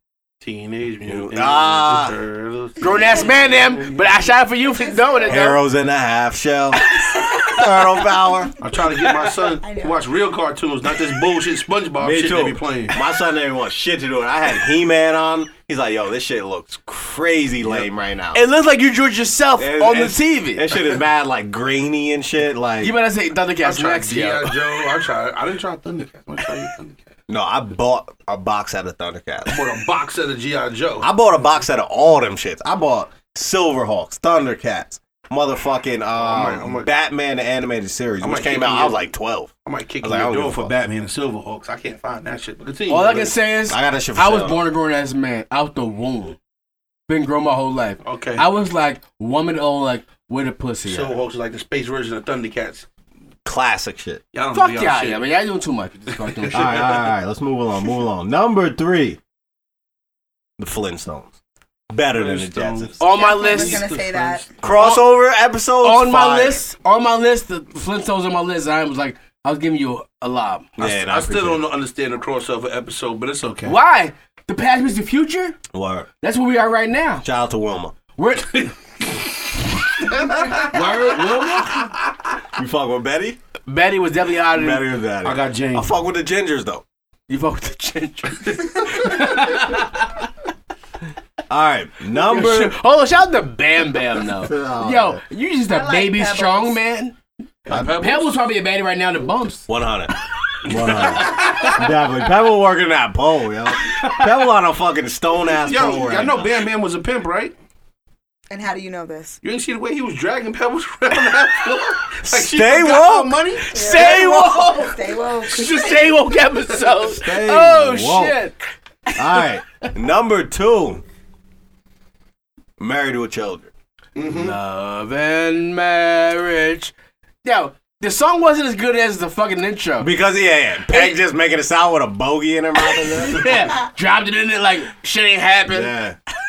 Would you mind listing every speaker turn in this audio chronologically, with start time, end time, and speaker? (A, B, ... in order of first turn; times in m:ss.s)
0:00.4-0:04.1 A
0:01.1-0:02.2 B
0:02.8-0:05.6 C
0:02.8-0:03.4 D
0:04.6-0:05.4 D
0:05.3-0:08.5 B
0:07.3-0:07.6 C
0:08.6-0:13.0 A
0:09.6-0:10.0 D
0:12.0-0:18.4 B
0:18.3-0:20.9 C
0:19.6-0:22.9 B
0:22.8-0:24.6 C
0:23.6-0:27.0 A
0:27.3-0:29.6 B
0:29.5-0:31.1 A
0:31.0-0:40.7 B
0:36.2-0:36.9 A
0:38.2-0:39.0 A
0:39.6-0:43.4 A
0:42.9-0:46.4 C
0:43.7-0:44.6 B
0:47.1-0:51.1 C
0:48.0-0:48.5 A
0:50.8-0:52.9 A
0:53.4-0:54.2 B
0:54.3-0:55.3 A
0:54.5-0:56.9 C
0:56.2-0:57.0 A
0:56.5-0:59.2 B
1:00.6-1:01.3 B
1:01.9-1:03.0 B
1:02.1-1:05.0 A
1:03.0-1:03.8 C
1:03.1-1:04.4 D
1:04.6-1:06.6 B
1:04.8-1:05.0 C
1:05.8-1:11.0 C
1:10.8-1:11.6 B
1:10.9-1:13.8 A
1:13.6-1:15.6 C
1:15.7-1:16.1 B
1:16.2-1:17.2 C
1:17.2-1:18.0 B
1:18.2-1:19.4 C
1:20.0-1:21.9 C
1:22.5-1:23.4 B
1:23.7-1:24.9 C
1:24.5-1:26.8 B
1:25.2-1:25.9 A
1:27.3-1:30.3 C
1:31.5-1:32.8 B
1:32.1-1:37.2 C
1:34.3-1:35.2 B
1:35.7-1:36.8 D
1:37.7-1:38.3 A
1:37.7-1:39.7 C
1:39.7-1:46.5 B
1:40.7-1:41.8 A
1:43.8-1:44.3 C
1:45.6-1:47.6 A
1:48.5-1:49.4 D
1:49.4-1:53.8 A
1:52.3-1:53.4 B
1:53.7-1:58.6 C
1:53.7-1:56.2 D
1:53.9-1:54.6 B
1:57.1-1:58.4 B
1:59.1-1:59.9 C
1:59.2-2:01.0 B
2:02.8-2:03.7 B
2:04.2-2:04.6 A
2:04.2-2:06.9 C
2:07.4-2:10.1 C
2:10.0-2:13.7 B
2:13.2-2:16.0 C
2:15.7-2:16.2 B